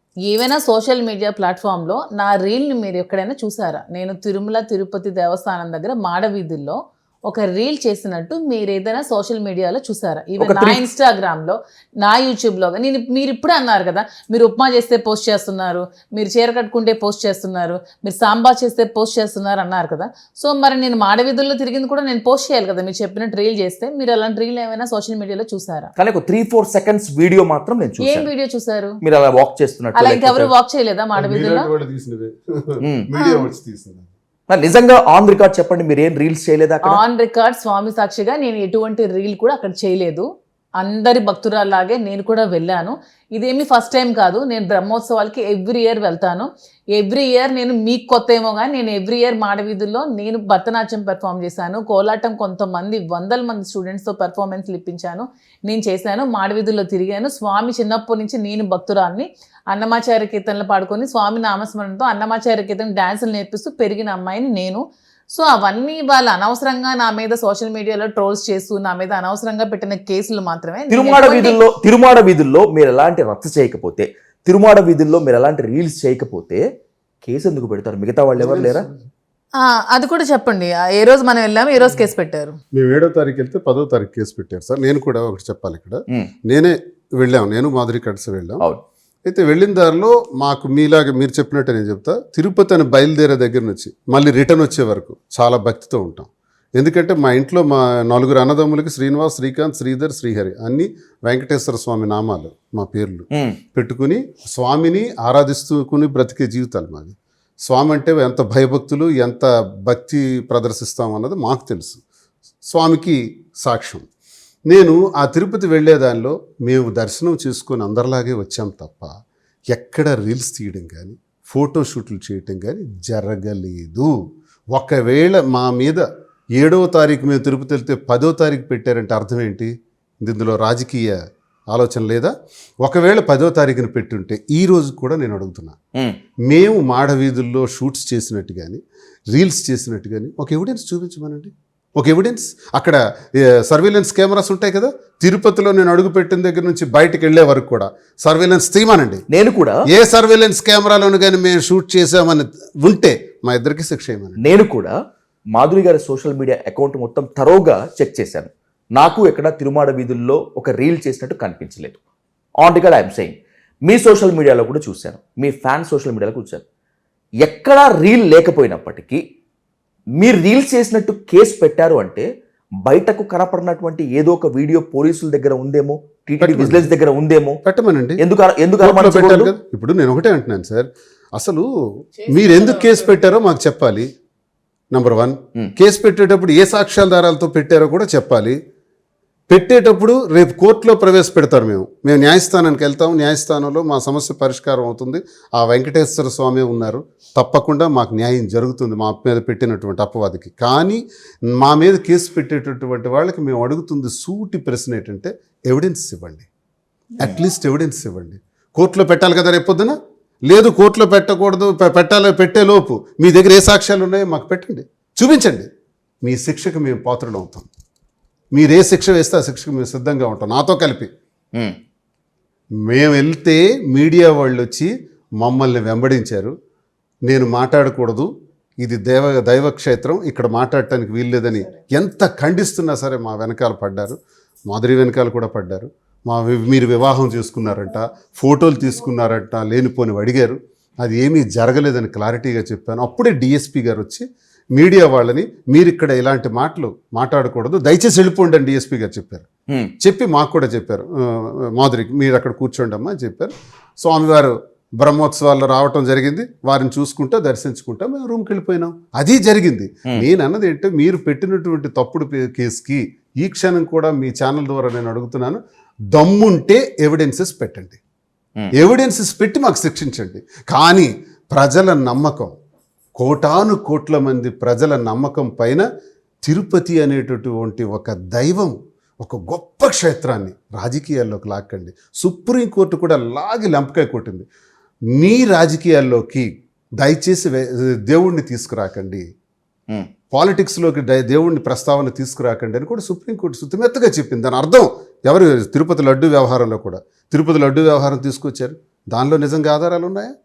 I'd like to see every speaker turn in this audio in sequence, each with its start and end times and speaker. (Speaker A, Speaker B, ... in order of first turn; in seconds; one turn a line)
Speaker A: 0.3-25.9
Speaker B: 10.4-10.8
Speaker B: 26.0-28.3
Speaker A: 28.0-29.0
Speaker B: 29.0-30.5
Speaker A: 29.9-31.7
Speaker C: 31.2-34.1
Speaker A: 33.1-33.5
Speaker B: 34.5-37.0
Speaker A: 36.9-40.3
Speaker A: 40.8-71.6
Speaker B: 70.9-76.6
Speaker B: 77.2-78.9
Speaker C: 78.4-79.0
Speaker A: 79.6-82.6
Speaker C: 82.7-88.7
Speaker C: 89.2-107.2
Speaker C: 107.7-112.0
Speaker C: 112.7-114.1
Speaker C: 114.7-119.1
Speaker C: 119.7-124.2
Speaker C: 124.7-126.1
Speaker C: 126.6-129.7
Speaker C: 130.2-131.2
Speaker C: 131.7-132.3
Speaker C: 132.8-135.8
Speaker C: 136.5-138.8
Speaker C: 139.3-149.2
Speaker B: 149.3-149.8
Speaker C: 149.9-154.4
Speaker B: 154.4-154.9
Speaker B: 155.6-162.0
Speaker B: 162.6-163.4
Speaker B: 163.9-166.6
Speaker B: 167.4-169.2
Speaker B: 170.2-172.3
Speaker B: 172.8-177.6
Speaker C: 176.4-176.9
Speaker C: 177.6-178.2
Speaker B: 178.2-179.5
Speaker C: 178.8-181.7
Speaker C: 182.3-184.1
Speaker A: 182.3-182.7
Speaker C: 184.9-188.6
Speaker C: 189.5-201.0
Speaker C: 201.5-206.5
Speaker C: 207.2-210.0
Speaker C: 210.5-215.7
Speaker C: 216.2-217.7
Speaker C: 218.5-221.1
Speaker C: 222.9-226.5
Speaker C: 227.3-228.3
Speaker C: 228.8-249.4
Speaker C: 250.0-265.6
Speaker C: 266.1-268.0
Speaker C: 268.7-272.6
Speaker C: 273.2-275.9
Speaker C: 276.5-284.5
Speaker C: 285.1-286.5
Speaker C: 287.0-289.2
Speaker C: 290.3-300.3